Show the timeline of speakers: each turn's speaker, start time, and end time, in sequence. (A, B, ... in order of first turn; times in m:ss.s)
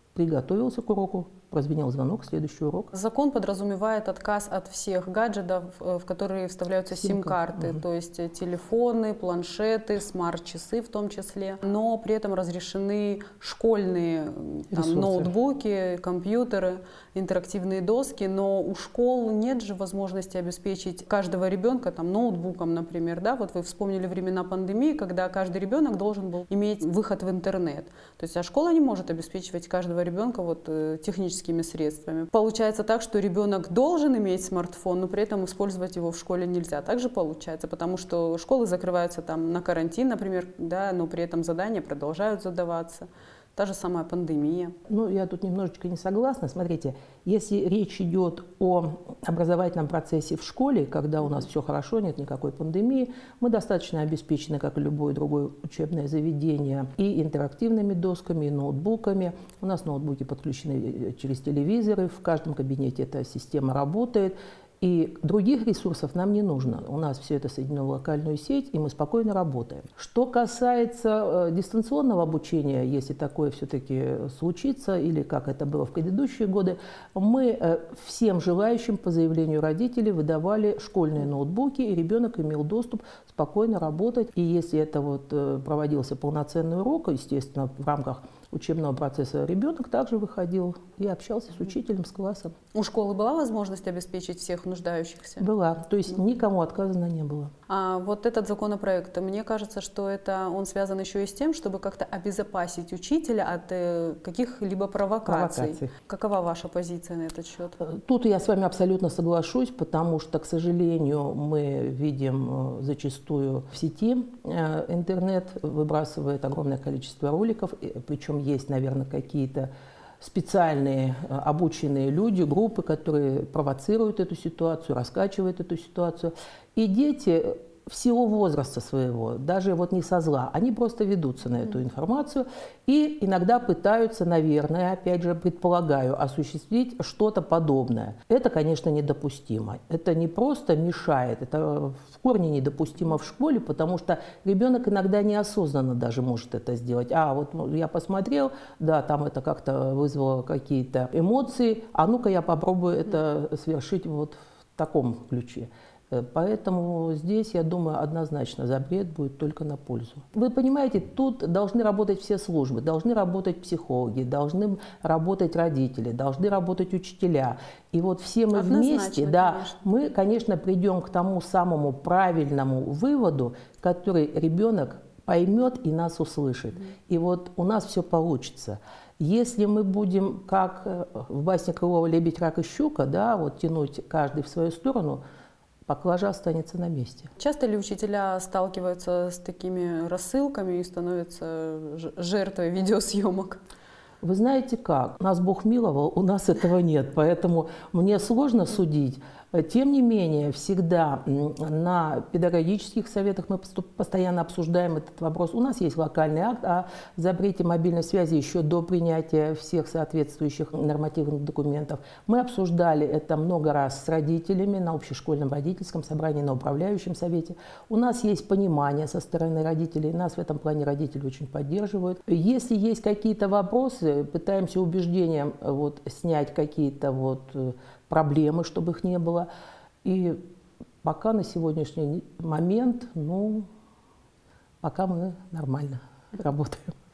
0:00.1-0:02.9 A
0:02.9-0:44.7 B
0:06.9-0:07.8 A
0:14.7-0:15.3 A
0:44.9-1:32.5 A
1:32.7-1:35.5 B
1:35.4-1:37.5 A
1:37.7-1:47.8 B
1:45.2-1:45.9 A
1:47.8-3:05.2 A
2:48.5-2:49.8 B
3:05.8-3:07.3 A
3:07.4-3:13.6 B
3:14.2-3:49.5 A
3:50.0-3:50.4 A
3:51.0-3:53.7 A
3:54.8-3:56.9 A